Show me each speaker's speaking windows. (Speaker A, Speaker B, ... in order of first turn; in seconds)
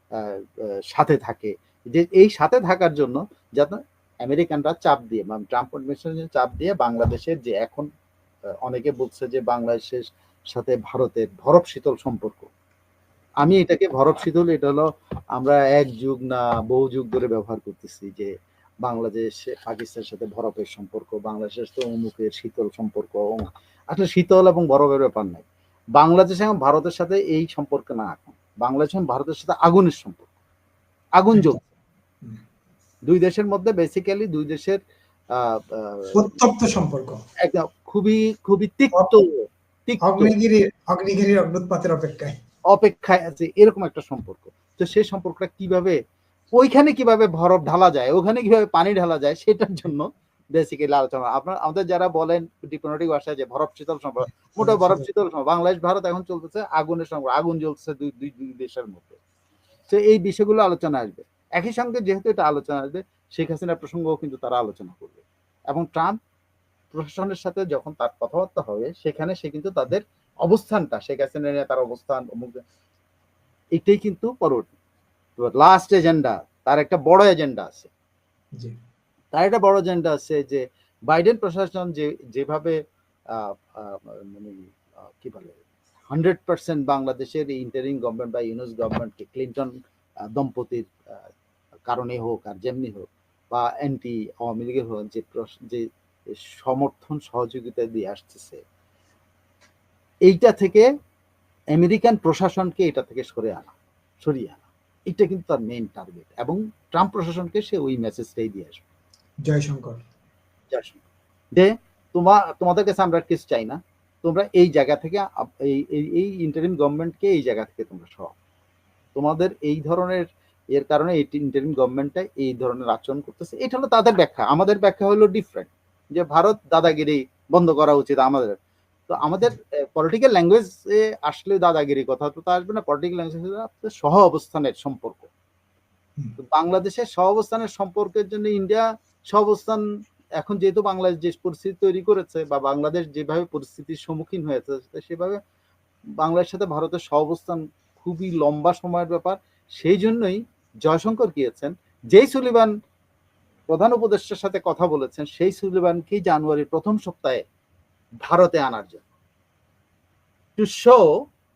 Speaker A: 0.1-7.9, 8.6-12.5, 13.4-14.8, 15.3-18.3, 18.8-25.4, 26.0-30.2, 31.2-31.6, 33.1-34.8, 35.3-36.1, 37.4-40.3, 42.7-46.0, 46.5-59.2, 59.9-66.2, 66.9-72.6, 73.8-74.7, 75.4-77.9, 79.3-82.8, 83.3-89.7, 90.3-91.1, 91.9-95.8, 96.5-98.6, 100.3-100.9, 101.8-108.8, 110.7-111.0, 111.5-118.3, 119.1-128.6, 129.1-135.3, 136.4-139.8, 140.4-145.4, 146.2-152.7, 153.7-157.4, 158.2-159.0, 160.6-161.1
Speaker B: 36.1-37.2, 40.0-42.4, 54.6-55.1, 109.4-110.0